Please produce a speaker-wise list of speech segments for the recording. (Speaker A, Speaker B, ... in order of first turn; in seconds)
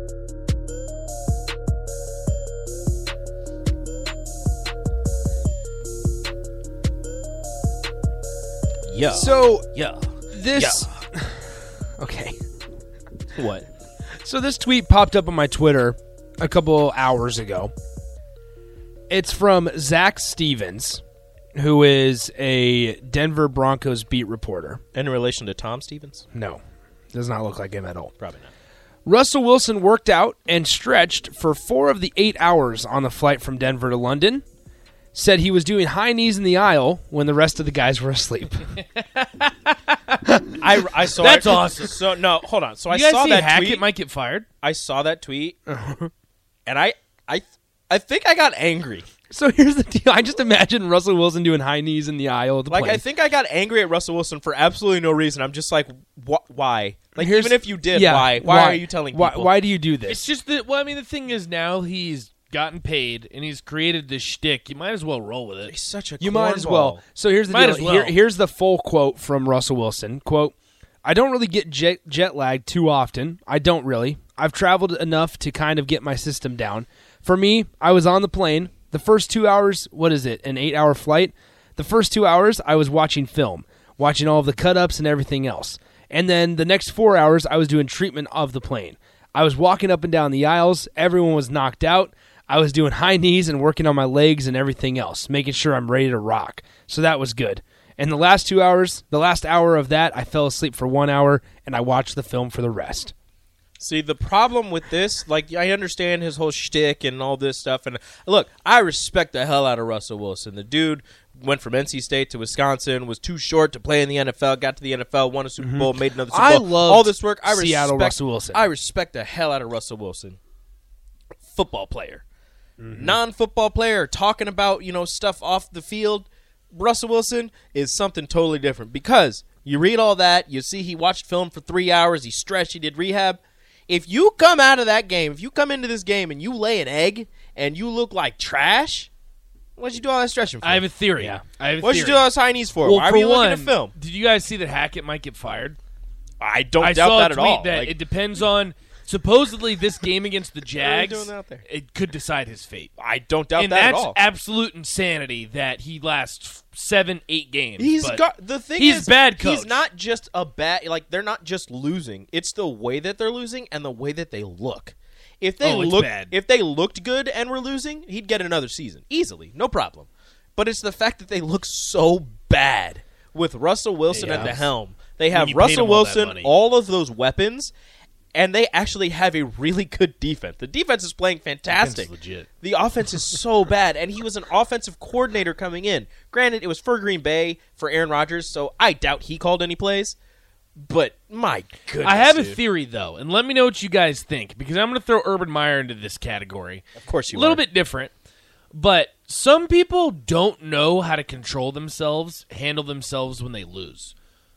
Speaker A: 8.8-9.3, 10.5-10.8, 13.3-13.7, 24.9-26.2, 28.2-28.5, 40.6-43.8, 44.6-45.6, 46.6-49.1, 52.7-59.5, 65.7-67.0, 103.8-120.4, 121.5-122.2, 122.9-139.1, 139.8-140.9, 141.8-143.9, 146.4-148.0, 150.7-151.6, 153.0-154.2, 157.8-177.7, 178.3-190.2, 190.8-192.6, 197.0-197.6
Speaker B: 9.1-9.7, 10.3-12.4, 14.2-17.7, 19.1-21.0, 21.5-24.8, 26.3-26.6, 27.1-28.1, 29.0-34.4, 35.1-38.7, 45.7-46.1, 49.3-53.0, 57.1-60.3, 66.2-103.1, 115.6-118.6, 122.8-123.2
Speaker C: 39.0-39.7, 41.2-42.0, 42.9-44.5, 60.0-65.7, 67.5-68.2, 140.6-145.8, 146.8-152.9, 153.5-158.2, 158.7-159.8, 165.6-166.3, 174.1-174.7, 175.3-176.5, 181.7-182.5, 192.0-198.1, 198.7-204.1